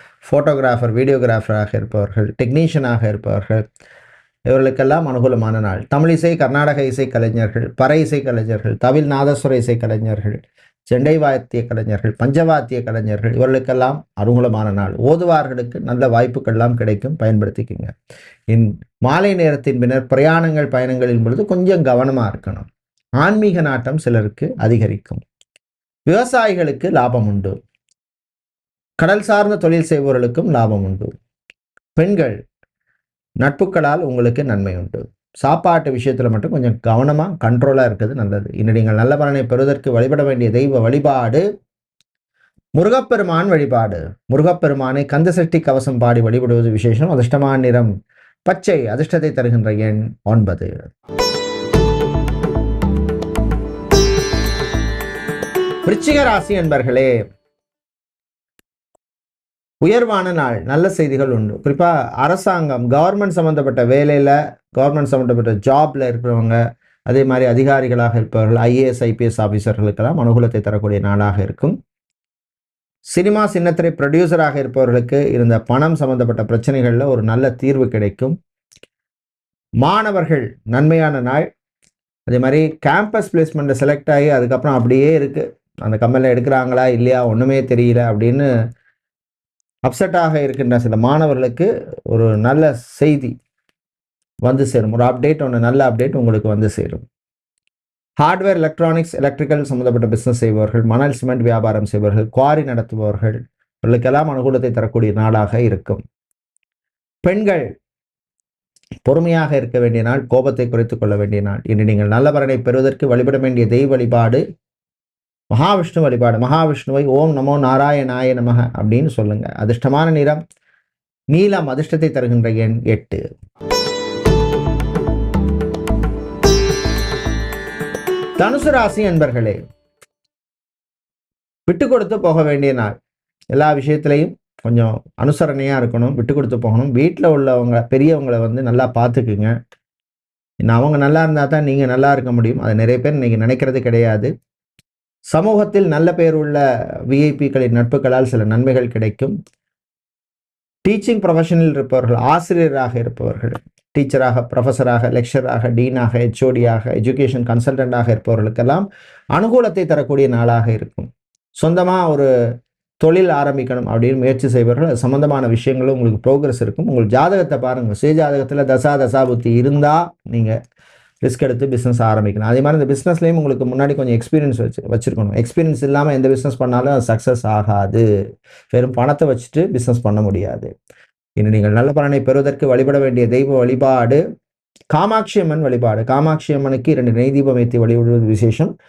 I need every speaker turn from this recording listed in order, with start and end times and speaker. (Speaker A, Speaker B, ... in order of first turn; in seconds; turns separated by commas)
Speaker A: 0.2-3.6, Speaker A: 4.5-17.9, Speaker A: 18.5-22.7, Speaker A: 23.2-25.2, Speaker A: 26.1-27.6, Speaker A: 29.0-31.1, Speaker A: 31.9-32.4, Speaker A: 33.4-41.4, Speaker A: 42.8-47.9, Speaker A: 48.5-50.7, Speaker A: 55.9-57.1, Speaker A: 59.8-71.8, Speaker A: 73.1-78.3, Speaker A: 79.8-81.5, Speaker A: 82.3-88.5, Speaker A: 89.8-93.3, Speaker A: 94.4-97.0, Speaker A: 98.2-106.0, Speaker A: 107.2-107.7, Speaker A: 109.0-114.4, Speaker A: 115.5-120.4, Speaker A: 121.3-123.2, Speaker A: 128.4-129.6, Speaker A: 131.7-132.9, Speaker A: 133.5-139.5, Speaker A: 140.6-144.3, Speaker A: 145.3-149.3, Speaker A: 150.8-161.1, Speaker A: 161.6-162.3, Speaker A: 163.0-170.5, Speaker A: 171.2-178.0, Speaker A: 178.7-180.7, Speaker A: 181.4-184.2, Speaker A: 184.9-188.7